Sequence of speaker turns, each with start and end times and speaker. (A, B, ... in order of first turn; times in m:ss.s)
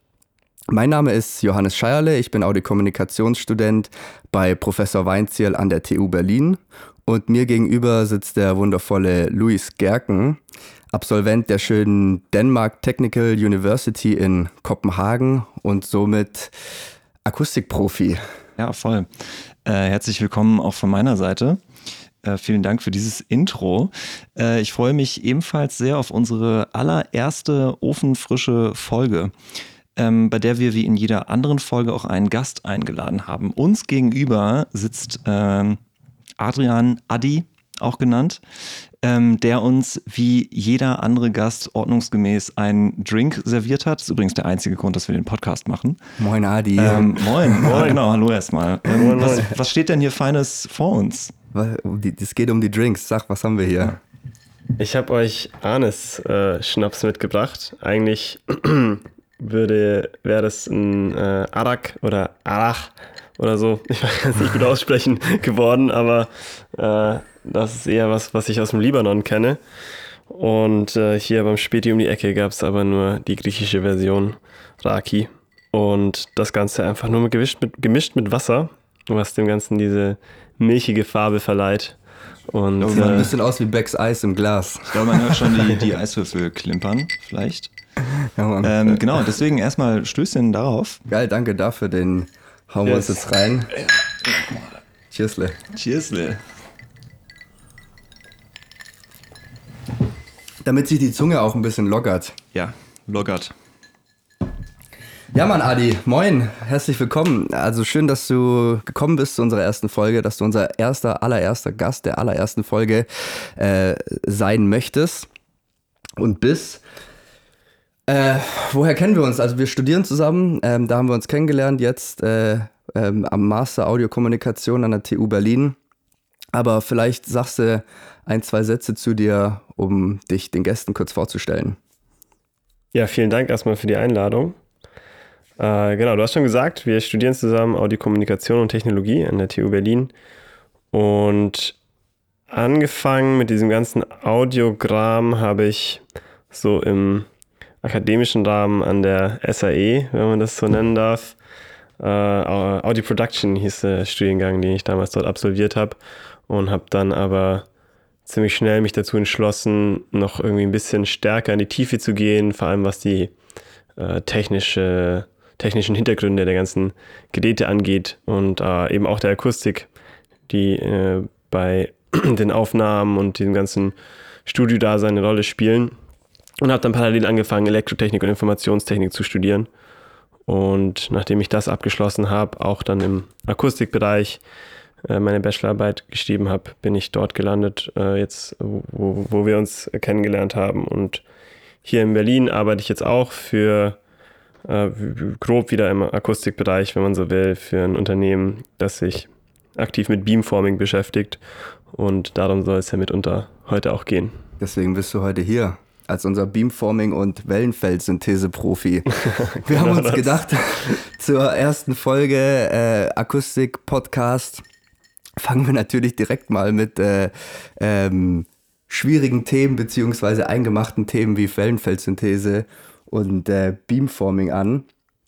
0:00.7-0:10.4 A
0:10.9-0:16.5 A
0:17.2-0:18.2 A
0:18.6-0:19.1 B
0:19.6-0:21.6 B
0:22.2-0:29.3 B
0:30.0-0:35.8 B
0:36.4-0:38.4 B
0:39.0-0:46.0 B
0:46.2-0:47.9 A
0:46.8-0:51.3 B
0:47.6-0:48.0 C
0:49.0-0:49.5 C
0:49.0-0:49.3 A
0:51.5-0:54.0 A
0:54.8-1:09.6 C
1:10.3-1:22.0 C
1:22.5-1:23.3 C
1:22.8-1:23.3 B
1:22.9-1:25.7 A
1:24.9-1:27.7 B
1:28.3-1:29.2 A
1:28.6-1:31.0 B
1:31.1-1:33.7 A
1:32.8-1:33.2 C
1:35.1-1:35.6 A
1:35.7-1:36.4 B
1:40.6-1:42.4 A
1:42.5-1:43.5 B
1:45.3-1:55.3 A
1:56.2-1:56.8 A
1:58.1-2:05.8 A
2:06.5-2:11.8 A
2:12.9-2:14.6 C
2:15.6-2:20.1 C
2:20.9-2:21.7 C
2:22.5-2:27.3 C
2:27.8-2:31.4 C
2:32.0-2:37.6 C
2:38.2-2:43.3 C
2:44.0-2:49.9 C
2:50.5-2:53.9 C
2:54.4-2:55.9 C
2:56.6-2:59.7 C
3:00.5-3:04.4 C
3:05.0-3:11.2 C
3:11.8-3:14.0 C
3:14.6-3:21.4 C
3:21.9-3:24.4 C
3:24.6-3:34.6 A
3:29.2-3:30.4 C
3:35.4-3:44.9 A